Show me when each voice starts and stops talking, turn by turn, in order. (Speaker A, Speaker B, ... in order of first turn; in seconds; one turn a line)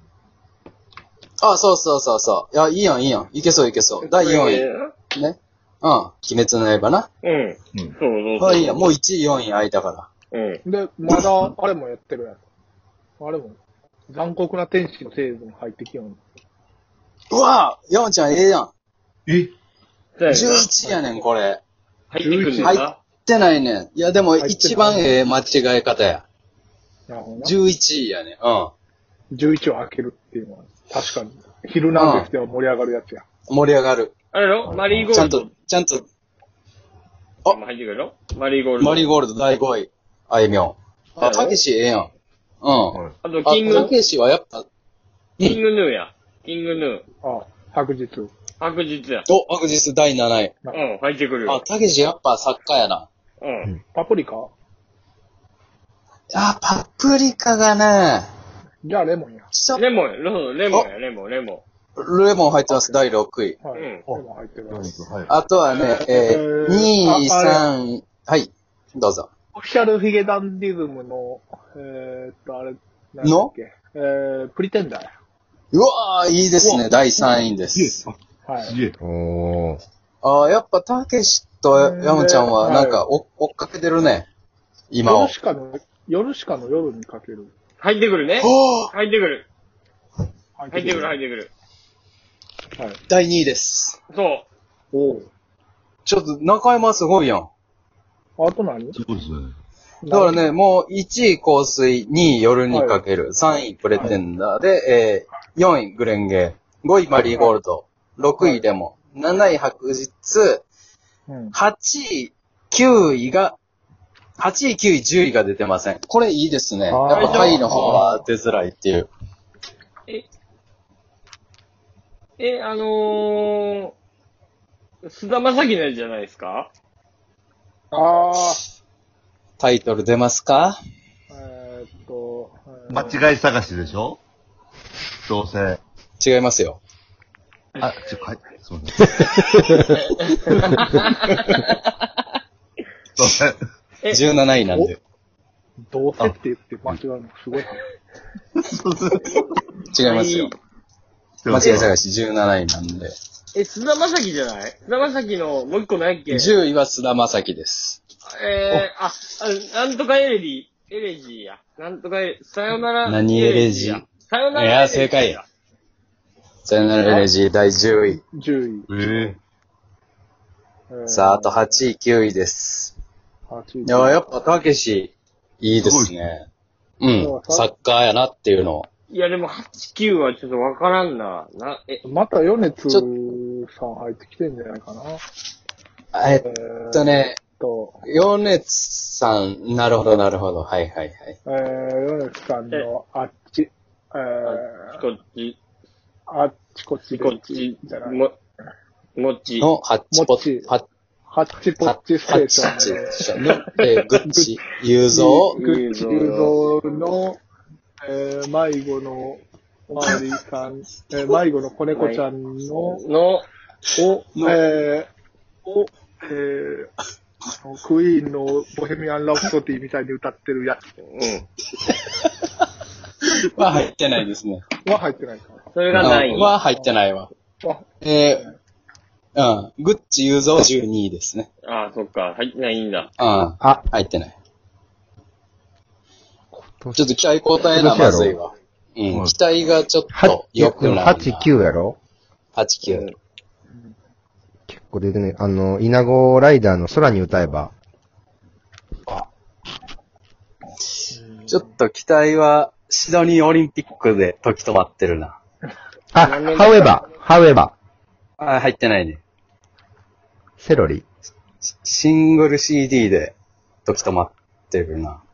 Speaker A: 1.4-7.1
Speaker B: 4.0-4.9
Speaker B: 7.2-8.9
Speaker A: 8.4-10.1
Speaker B: 10.3-10.6
Speaker C: 10.7-12.4
Speaker C: 13.2-13.6
Speaker C: 14.1-16.2
Speaker A: 17.3-18.7
Speaker D: 19.3-19.5
Speaker B: 20.2-20.7
Speaker A: 20.3-21.6
Speaker C: 20.8-21.1
Speaker B: 22.1-23.0
Speaker C: 22.2-22.8
Speaker A: 22.6-26.2
Speaker C: 24.4-25.2
Speaker C: 27.1-27.5
Speaker A: 27.4-28.7
Speaker C: 29.3-33.2
Speaker A: 31.9-32.3
Speaker A: 33.5-34.1
Speaker B: 34.3-35.5
Speaker D: 34.9-35.4
Speaker A: 35.1-36.0
Speaker B: 37.5-39.1
Speaker A: 38.8-42.1
Speaker B: 41.2-41.6
Speaker A: 42.6-44.7
Speaker B: 43.2-43.9
Speaker B: 45.4-47.0
Speaker C: 47.2-48.3
Speaker B: 48.6-49.3
Speaker A: 49.3-50.6
Speaker B: 50.7-51.6
Speaker A: 51.5-53.1
Speaker B: 53.4-53.7
Speaker C: 53.9-54.5
Speaker A: 56.4-58.3
Speaker C: 58.9-59.5
Speaker A: 59.5-59.8
Speaker B: 59.7-61.6
Speaker A: 62.0-63.6
Speaker C: 62.7-63.0
Speaker C: 63.6-64.9
Speaker B: 63.8-64.0
Speaker D: 64.1-65.3
Speaker A: 65.3-69.3
Speaker C: 66.0-67.7
Speaker C: 69.5-75.1
Speaker A: 73.2-73.5
Speaker A: 75.7-78.0
Speaker D: 76.6-76.9
Speaker D: 77.8-79.0
Speaker C: 78.5-78.8
Speaker E: 79.0-79.8
Speaker A: 80.2-84.3
Speaker C: 81.7-83.0
Speaker A: 84.9-85.4
Speaker C: 85.0-87.5
Speaker B: 87.8-89.5
Speaker A: 88.4-88.9
Speaker C: 90.6-91.2
Speaker B: 90.7-91.5
Speaker A: 93.1-94.0
Speaker B: 94.1-94.5
Speaker C: 94.9-95.3
Speaker A: 96.1-97.5
Speaker C: 98.4-99.0
Speaker D: 99.0-99.5
Speaker C: 100.0-100.4
Speaker A: 100.1-110.7
Speaker C: 102.7-103.0
Speaker C: 103.9-104.2
Speaker C: 107.2-107.5
Speaker C: 108.4-108.7
Speaker C: 111.3-111.5
Speaker A: 111.5-113.6
Speaker A: 114.4-119.1
Speaker C: 116.9-118.2
Speaker B: 117.1-117.6
Speaker B: 122.4-124.0
Speaker B: 125.0-126.7
Speaker C: 127.9-128.6
Speaker A: 129.6-130.8
Speaker C: 131.3-133.2
Speaker D: 132.9-134.2
Speaker D: 135.3-135.8
Speaker A: 136.2-136.8
Speaker D: 137.8-139.0
Speaker E: 139.2-139.8
Speaker B: 140.6-142.0
Speaker A: 141.3-141.6
Speaker D: 143.2-143.6
Speaker A: 144.1-145.0
Speaker C: 145.9-147.8
Speaker D: 148.6-149.5
Speaker A: 149.9-150.5
Speaker B: 150.0-150.5
Speaker D: 151.4-151.9
Speaker A: 151.5-153.1
Speaker B: 153.5-156.6
Speaker A: 156.3-158.0
Speaker B: 158.2-165.4
Speaker A: 163.1-165.4
Speaker A: 166.7-168.2
Speaker C: 168.1-168.9
Speaker D: 168.9-169.3
Speaker A: 168.9-169.3
Speaker C: 170.9-171.6
Speaker A: 171.1-172.9
Speaker C: 173.5-174.2
Speaker A: 173.8-176.5
Speaker D: 175.8-176.1
Speaker A: 177.0-178.9
Speaker C: 177.2-177.7
Speaker B: 179.1-182.0
Speaker C: 182.1-185.2
Speaker A: 186.1-187.4
Speaker C: 186.3-188.0
Speaker A: 188.0-191.4
Speaker C: 191.4-195.0
Speaker B: 194.4-195.6
Speaker C: 196.3-198.2
Speaker B: 197.1-198.3
Speaker B: 199.2-199.7
Speaker A: 199.6-200.8
Speaker C: 200.1-200.7
Speaker C: 201.3-207.4
Speaker A: 201.8-205.6
Speaker B: 205.5-206.7
Speaker C: 208.0-213.0
Speaker B: 211.9-212.2
Speaker B: 212.9-213.5
Speaker C: 213.9-215.1
Speaker C: 215.7-216.9
Speaker C: 217.6-220.9
Speaker B: 221.0-221.4
Speaker A: 221.8-222.3
Speaker A: 223.6-224.7
Speaker C: 224.8-225.6
Speaker B: 225.7-226.5
Speaker A: 225.9-227.3
Speaker A: 228.0-228.5
Speaker A: 229.4-231.5
Speaker B: 231.6-233.1
Speaker A: 233.2-234.3
Speaker E: 236.6-237.1
Speaker A: 237.0-241.5
Speaker E: 237.6-238.4
Speaker D: 239.1-239.4
Speaker E: 240.1-242.0
Speaker A: 242.6-243.1
Speaker B: 242.8-243.2
Speaker E: 244.7-247.7
Speaker C: 251.1-251.7
Speaker A: 251.5-255.4
Speaker E: 256.1-257.7
Speaker B: 256.2-256.9
Speaker A: 258.4-259.2
Speaker E: 260.6-261.1
Speaker A: 261.6-265.2